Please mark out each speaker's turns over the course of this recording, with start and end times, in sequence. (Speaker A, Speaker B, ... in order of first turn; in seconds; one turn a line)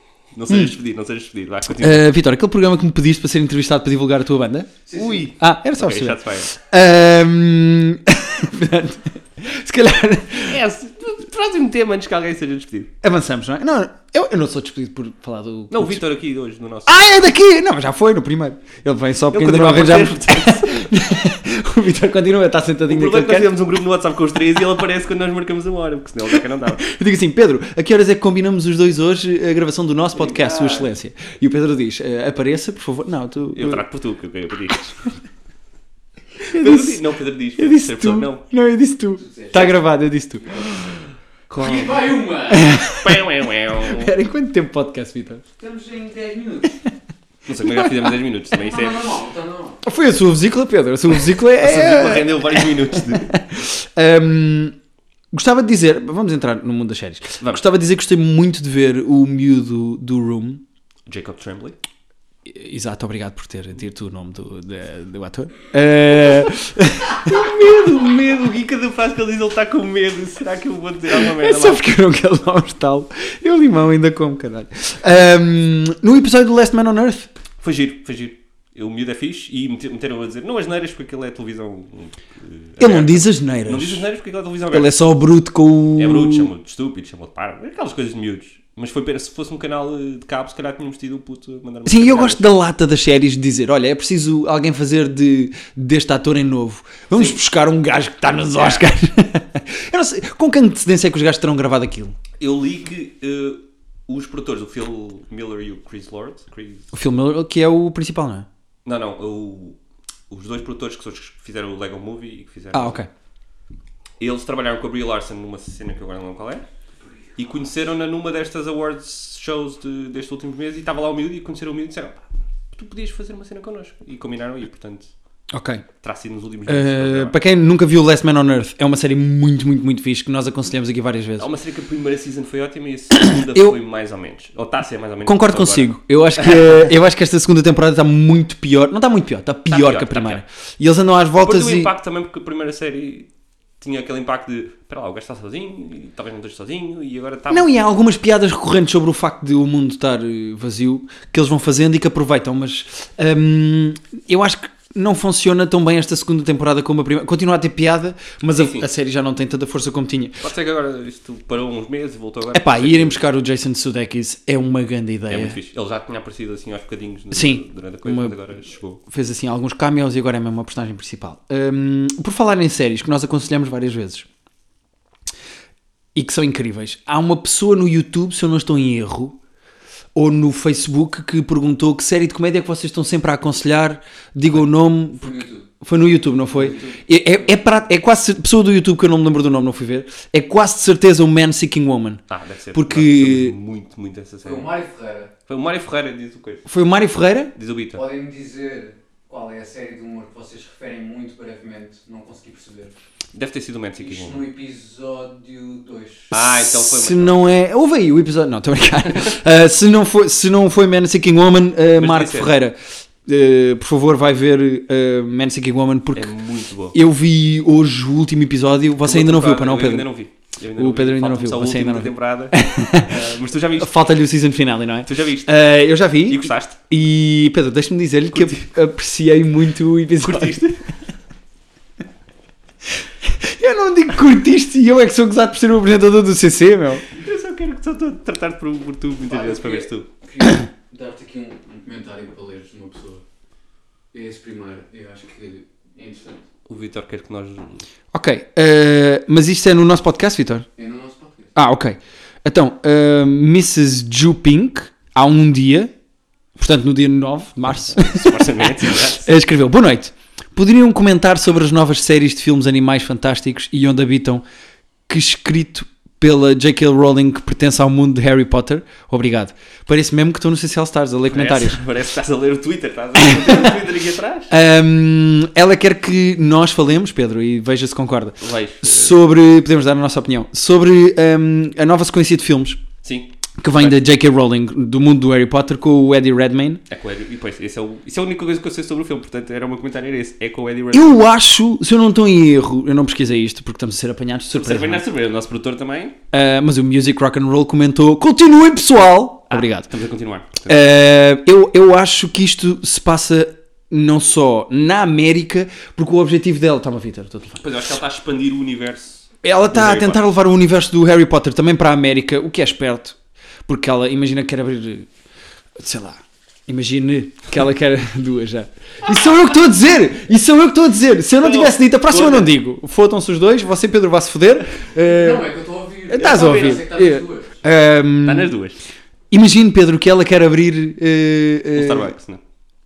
Speaker A: 0.3-2.0
Speaker B: 1.7-4.8
Speaker C: 4.9-5.3
Speaker A: 4.9-6.5
Speaker B: 5.3-10.6
Speaker A: 10.4-12.9
Speaker B: 13.0-16.0
Speaker A: 15.7-17.1
Speaker B: 16.9-23.5
Speaker A: 19.3-20.9
Speaker A: 22.9-26.9
Speaker B: 26.8-33.8
Speaker A: 30.1-30.9
Speaker A: 33.5-34.9
Speaker A: 36.4-38.4
Speaker B: 36.5-37.0
Speaker B: 37.6-41.0
Speaker C: 39.1-39.8
Speaker A: 41.5-42.3
Speaker C: 41.6-42.7
Speaker B: 42.5-43.2
Speaker A: 42.9-44.1
Speaker B: 43.8-45.4
Speaker C: 45.6-46.8
Speaker A: 47.5-49.2
Speaker B: 47.6-48.2
Speaker C: 48.5-49.8
Speaker B: 49.8-54.8
Speaker A: 51.2-53.4
Speaker B: 55.3-60.6
Speaker A: 61.0-61.8
Speaker B: 62.5-68.4
Speaker A: 67.2-71.8
Speaker B: 71.1-77.3
Speaker A: 77.6-84.9
Speaker B: 82.8-84.0
Speaker B: 84.7-86.5
Speaker A: 86.0-92.5
Speaker B: 91.8-102.2
Speaker A: 97.1-97.4
Speaker A: 98.3-98.9
Speaker A: 102.4-106.9
Speaker B: 106.9-108.5
Speaker A: 108.8-109.8
Speaker A: 110.3-113.0
Speaker B: 112.7-113.1
Speaker A: 114.2-116.6
Speaker A: 117.3-125.1
Speaker B: 125.5-125.8
Speaker A: 126.0-127.3
Speaker B: 126.7-131.5
Speaker A: 131.4-136.8
Speaker B: 133.1-133.8
Speaker B: 135.2-141.9
Speaker A: 139.7-140.4
Speaker A: 141.4-143.3
Speaker A: 143.8-147.7
Speaker B: 147.5-160.4
Speaker A: 158.5-158.9
Speaker A: 160.4-163.2
Speaker B: 162.5-165.6
Speaker A: 165.3-169.0
Speaker B: 167.3-168.3
Speaker B: 169.1-174.3
Speaker B: 176.1-179.4
Speaker B: 180.1-192.2
Speaker C: 185.1-185.7
Speaker C: 186.4-187.1
Speaker A: 192.3-194.7
Speaker B: 192.7-193.6
Speaker C: 194.4-195.3
Speaker A: 195.5-196.7
Speaker B: 196.7-197.5
Speaker A: 197.6-198.0
Speaker C: 197.9-202.9
Speaker A: 203.3-204.4
Speaker C: 203.9-206.3
Speaker A: 206.3-207.6
Speaker B: 206.4-216.3
Speaker A: 211.9-212.5
Speaker A: 216.1-216.9
Speaker B: 216.9-220.1
Speaker A: 219.0-223.9
Speaker B: 220.8-223.2
Speaker B: 223.8-230.6
Speaker A: 225.1-226.8
Speaker A: 228.3-228.6
Speaker A: 230.2-230.8
Speaker B: 233.2-237.0
Speaker A: 237.1-240.1
Speaker C: 239.2-243.2
Speaker C: 244.1-246.4
Speaker A: 246.7-247.8
Speaker B: 248.1-250.7
Speaker C: 250.8-251.5
Speaker B: 251.5-255.9
Speaker B: 256.6-264.4
Speaker A: 257.9-259.3
Speaker B: 265.1-271.8
Speaker A: 271.3-274.5
Speaker B: 273.2-273.7
Speaker B: 274.5-282.8
Speaker A: 278.4-279.1
Speaker A: 283.0-284.0
Speaker B: 283.6-286.8
Speaker A: 286.9-291.2
Speaker B: 290.9-295.0
Speaker A: 294.5-296.1
Speaker B: 296.3-299.9
Speaker A: 299.5-300.8
Speaker B: 300.6-307.6
Speaker A: 307.6-310.2
Speaker B: 309.4-315.1
Speaker B: 315.8-325.5
Speaker A: 321.4-322.5
Speaker C: 325.0-327.6
Speaker B: 326.1-328.5
Speaker A: 326.1-326.9
Speaker A: 328.2-328.8
Speaker B: 329.3-332.1
Speaker A: 331.7-332.4